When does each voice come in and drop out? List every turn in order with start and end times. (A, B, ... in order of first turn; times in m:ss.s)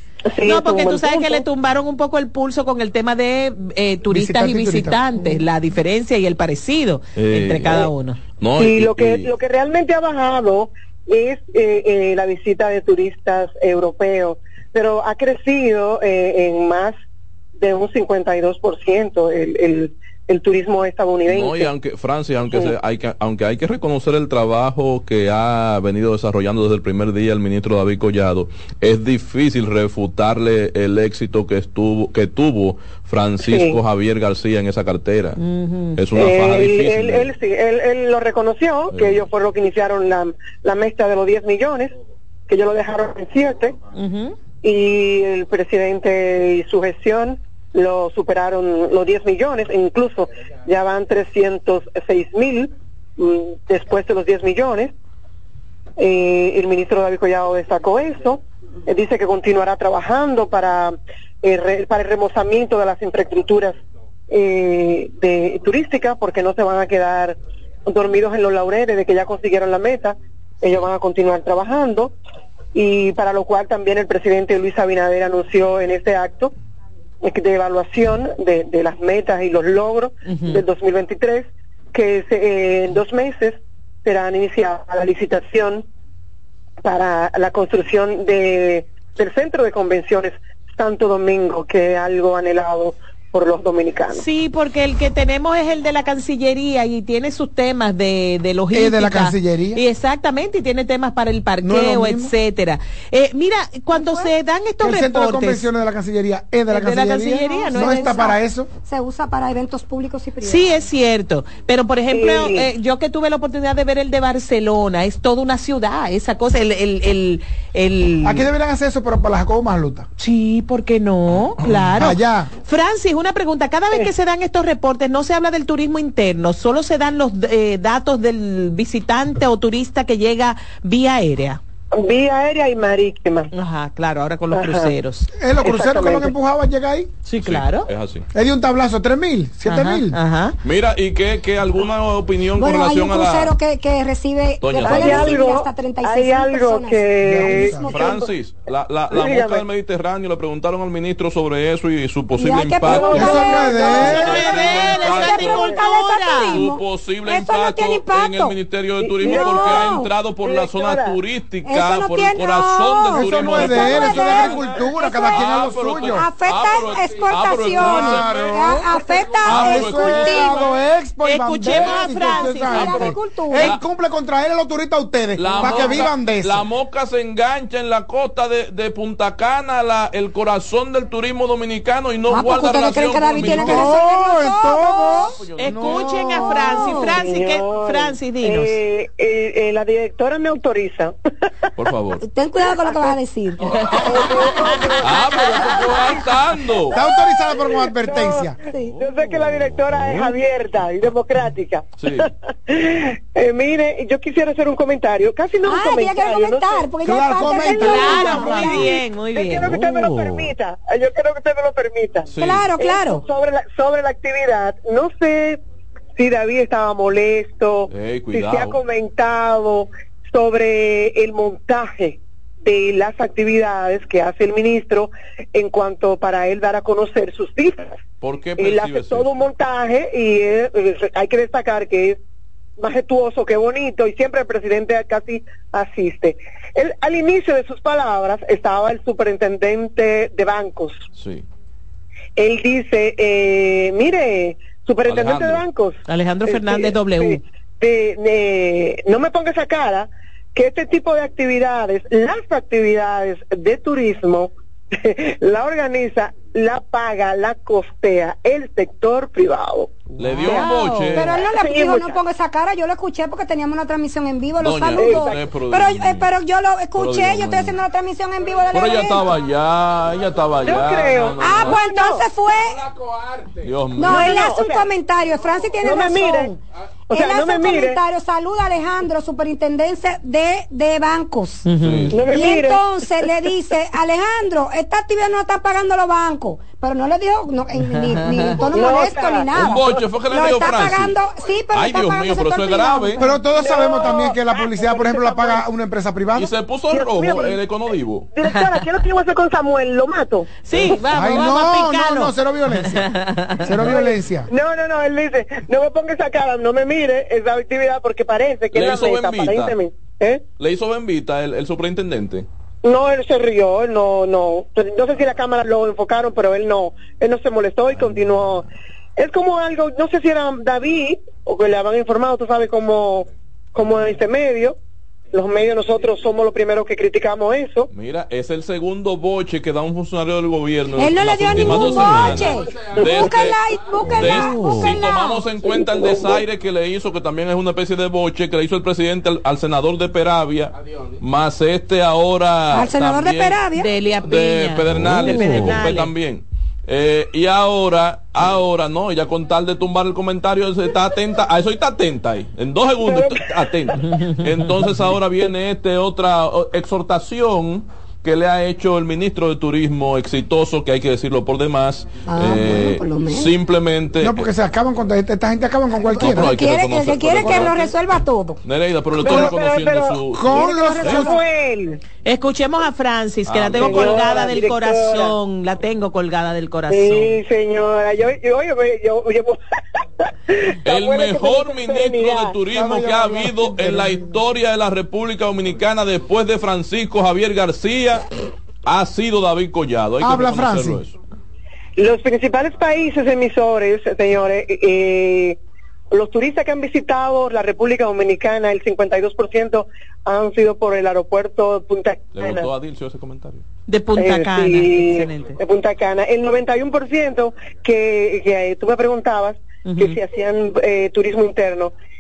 0:00.3-0:01.4 A
0:00.4-0:08.2 B
0:04.1-0:05.0 C
0:07.2-0:09.3 D
0:08.6-0:16.9 A
0:17.6-0:21.7 A
0:21.3-0:35.4 D
0:33.4-0:33.8 A
0:35.4-0:36.0 B
0:36.0-0:37.3 D
0:36.2-0:41.9 A
0:38.9-0:39.2 D
0:42.5-0:43.8 A
0:44.0-0:44.3 B
0:44.6-0:54.9 A
0:56.0-1:03.8 A
1:04.3-1:12.2 A
1:12.7-1:16.5 A
1:17.2-1:25.8 A
1:20.3-1:20.6 B
1:26.8-1:34.2 A
1:34.1-1:45.7 B
1:38.7-1:39.8 C
1:41.6-1:42.3 C
1:43.9-1:44.3 E
1:44.8-1:48.7 C
1:46.7-1:48.4 B
1:47.5-1:48.3 E
1:48.8-1:50.8 E
1:50.4-1:58.5 B
1:52.1-1:52.7 A
1:58.2-2:00.1 C
2:00.2-2:11.6 B
2:01.6-2:01.9 D
2:02.0-2:02.5 C
2:11.9-2:13.5 A
2:13.5-2:15.3 B
2:14.5-2:14.9 A
2:15.4-2:17.2 C
2:15.6-2:16.3 A
2:17.2-2:17.9 B
2:17.4-2:18.3 D
2:18.3-2:20.2 C
2:19.6-2:20.6 B
2:20.6-2:23.5 D
2:22.6-2:28.1 E
2:24.6-2:25.5 D
2:24.8-2:28.3 A
2:27.2-2:28.0 C
2:27.8-2:35.8 D
2:29.1-2:29.6 A
2:32.4-2:34.1 E
2:32.8-2:35.6 A
2:33.1-2:34.6 C
2:33.8-2:36.6 B
2:34.8-2:38.6 E
2:36.4-2:48.9 D
2:39.0-2:39.9 A
2:39.2-2:40.1 E
2:40.4-2:41.2 A
2:41.6-2:50.6 E
2:43.2-2:46.3 C
2:47.8-2:56.6 C
2:49.4-2:50.8 D
2:51.2-2:53.1 B
2:51.7-2:52.0 D
2:52.3-2:53.7 E
2:53.6-2:53.8 D
2:55.4-3:04.0 D
3:02.3-3:05.4 E
3:03.4-3:06.6 C
3:05.5-3:05.7 D
3:05.6-3:08.8 B
3:06.3-3:07.2 E
3:06.4-3:11.1 A
3:11.8-3:12.2 D
3:12.2-3:14.0 E
3:12.6-3:13.1 A
3:14.0-3:16.0 A
3:15.0-3:17.0 D
3:16.9-3:18.6 C
3:17.0-3:26.9 A
3:18.7-3:18.9 E
3:22.0-3:22.3 D
3:25.7-3:29.0 E
3:27.0-3:28.6 C
3:27.4-3:35.6 A
3:27.7-3:29.8 B
3:32.3-3:32.7 D
3:32.4-3:33.2 E
3:36.2-3:48.0 A
3:37.9-3:38.8 D
3:48.2-3:49.3 D
3:48.6-3:52.2 A
3:52.8-4:01.0 A
4:01.2-4:01.4 D
4:02.4-4:20.0 A
4:05.1-4:05.6 D
4:06.1-4:07.4 B
4:20.2-4:21.4 D
4:20.2-4:21.3 B
4:21.2-4:29.3 E
4:21.4-4:22.2 A
4:24.6-4:26.3 D
4:25.0-4:25.4 A
4:27.0-4:27.8 D
4:28.7-4:31.8 D
4:30.6-4:32.2 A
4:31.4-4:32.8 E
4:33.6-4:34.5 D
4:34.0-4:36.6 E
4:34.1-4:34.9 A
4:35.8-4:36.5 A
4:37.1-4:38.0 A
4:37.1-4:41.7 E
4:41.7-4:42.1 B
4:41.8-4:42.1 D
4:42.1-4:43.0 A
4:42.3-4:53.3 E
4:47.9-4:48.6 B
4:48.7-4:49.5 A
4:49.6-4:51.2 D
4:51.7-4:53.2 D
4:53.2-4:56.5 C
4:53.6-4:55.6 A
4:56.4-4:58.3 D
4:56.9-4:57.6 A
4:58.3-5:01.0 A
5:00.6-5:03.9 B
5:01.1-5:03.1 C
5:03.6-5:04.5 C
5:03.8-5:10.4 A
5:08.7-5:09.8 D
5:10.6-5:12.5 D
5:12.8-5:24.8 A
5:25.3-5:27.9 A
5:27.9-5:33.6 D
5:31.0-5:36.1 E
5:34.1-5:43.6 D
5:42.7-5:43.9 E
5:43.8-5:46.1 B
5:44.2-6:04.5 D
5:53.1-5:53.4 A
5:54.1-5:54.8 B
6:02.3-6:03.5 E
6:04.2-6:06.5 C
6:06.0-6:08.6 E
6:06.2-6:07.9 D
6:08.6-6:11.2 D
6:09.2-6:10.2 A
6:09.3-6:09.5 C
6:10.3-6:11.3 C
6:10.5-6:11.4 E
6:10.9-6:12.0 A
6:12.2-6:17.3 B
6:13.5-6:14.4 D
6:13.8-6:15.4 A
6:16.9-6:19.6 A
6:20.5-6:22.6 A
6:20.8-6:28.3 D
6:22.7-6:24.4 C
6:28.9-6:31.2 D
6:30.2-6:31.0 C
6:32.0-6:35.6 A
6:36.1-6:42.7 A
6:42.4-6:43.6 D
6:43.9-6:45.6 B
6:44.2-6:51.9 A
6:49.8-6:50.2 B